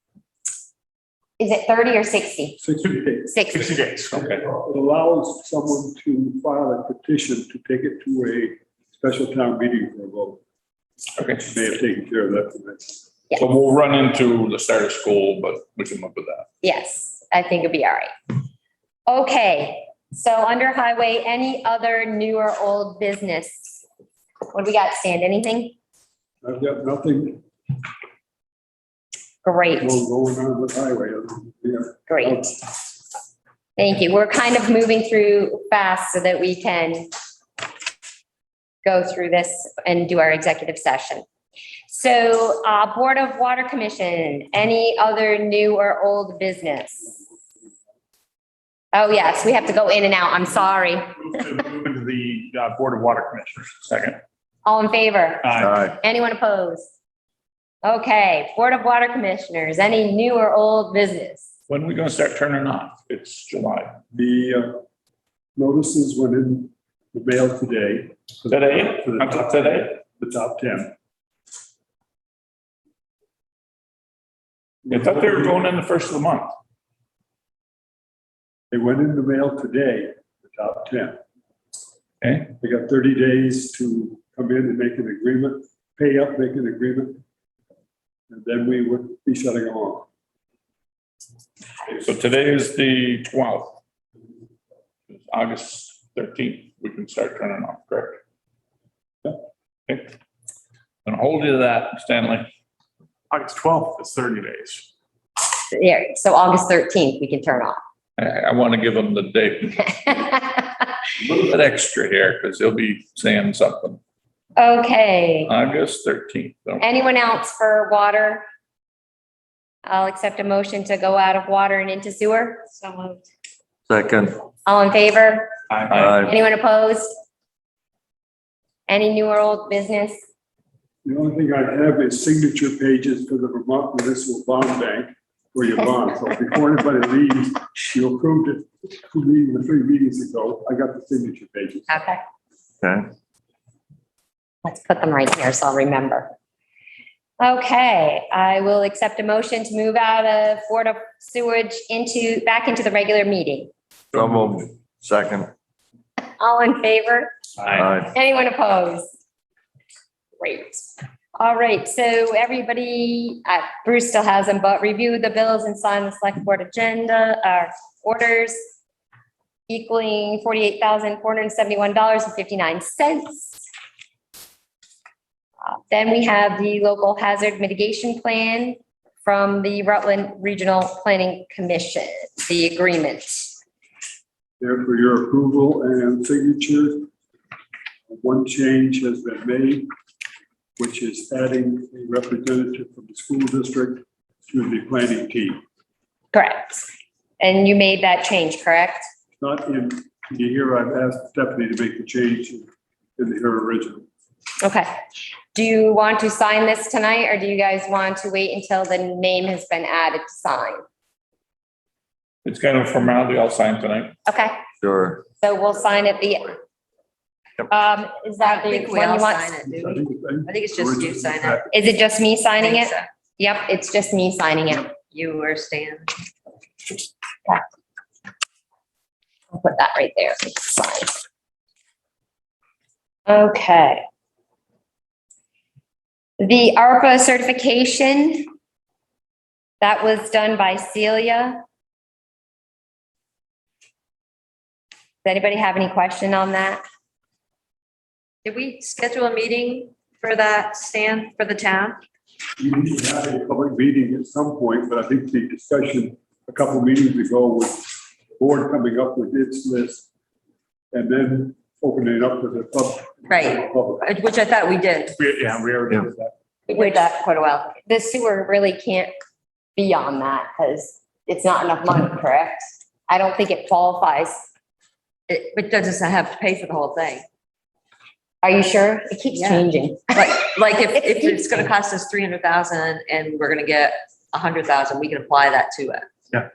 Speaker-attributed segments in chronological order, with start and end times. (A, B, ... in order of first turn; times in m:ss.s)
0:01.4-0:02.6 A
0:02.6-0:03.4 B
0:03.3-0:03.7 A
0:03.5-0:04.2 C
0:04.1-0:04.4 D
0:04.3-0:10.4 B
0:11.2-0:11.4 D
0:11.4-0:13.0 B
0:13.4-0:16.5 D
0:16.6-0:18.1 A
0:19.1-0:23.8 A
0:24.5-0:25.7 A
0:26.4-0:27.4 B
0:29.4-0:29.9 A
0:29.8-0:32.6 B
0:32.1-0:32.4 A
0:33.8-0:37.1 A
0:38.8-0:41.2 A
0:41.9-0:47.0 A
0:48.9-0:51.3 A
0:51.3-0:54.0 C
0:53.9-0:54.2 D
0:54.6-0:56.9 A
0:55.4-0:55.7 C
0:55.6-0:56.0 E
0:57.8-1:01.5 A
1:01.7-1:04.0 D
1:04.1-1:04.8 B
1:05.6-1:10.9 B
1:08.5-1:09.9 D
1:14.8-1:15.6 B
1:14.9-1:16.5 D
1:18.7-1:21.2 B
1:22.2-1:22.5 D
1:22.6-1:27.2 B
1:28.3-1:30.1 B
1:32.0-1:33.8 D
1:35.1-1:38.2 D
1:39.9-1:40.1 D
1:41.0-1:42.5 D
1:43.3-1:44.9 C
1:45.7-1:47.8 A
1:48.2-1:50.2 D
1:50.2-1:50.7 A
1:51.2-1:54.0 D
1:54.6-1:55.5 A
1:55.4-1:56.9 D
1:56.8-1:58.4 A
1:59.8-2:02.6 A
2:02.7-2:03.2 F
2:03.9-2:04.4 E
2:04.6-2:05.5 A
2:05.7-2:06.2 D
2:05.9-2:06.3 E
2:06.2-2:07.1 A
2:08.9-2:10.2 A
2:11.0-2:21.9 B
2:21.9-2:22.2 A
2:22.8-2:23.1 E
2:24.6-2:26.3 A
2:27.4-2:33.7 A
2:34.1-2:35.5 E
2:36.4-2:37.3 A
2:37.7-2:38.1 E
2:38.1-2:39.1 A
2:40.4-2:48.6 A
2:49.7-2:53.6 A
2:55.6-3:03.6 A
3:04.6-3:07.1 B
3:08.1-3:09.9 B
3:10.8-3:15.6 B
3:16.3-3:16.8 A
3:17.4-3:19.0 A
3:19.4-3:24.1 B
3:24.6-3:24.9 A
3:25.5-3:30.8 A
3:32.4-3:34.2 D
3:34.3-3:34.6 A
3:34.8-3:35.2 E
3:35.4-3:36.6 A
3:37.7-3:39.8 A
3:38.4-3:41.6 F
3:39.7-3:41.7 B
3:41.7-3:44.9 A
3:42.6-3:43.0 F
3:45.1-3:46.1 F
3:49.5-3:51.2 A
3:53.3-3:54.0 A
3:56.4-3:58.5 A
3:59.8-4:01.6 A
4:05.2-4:06.8 A
4:08.4-4:12.0 F
4:12.6-4:20.1 B
4:20.9-4:24.1 B
4:23.3-4:25.2 F
4:25.2-4:26.3 C
4:26.7-4:27.7 F
4:26.7-4:29.1 A
4:29.8-4:34.5 A
4:35.3-4:37.2 F
4:38.4-4:40.2 A
4:39.3-4:46.1 F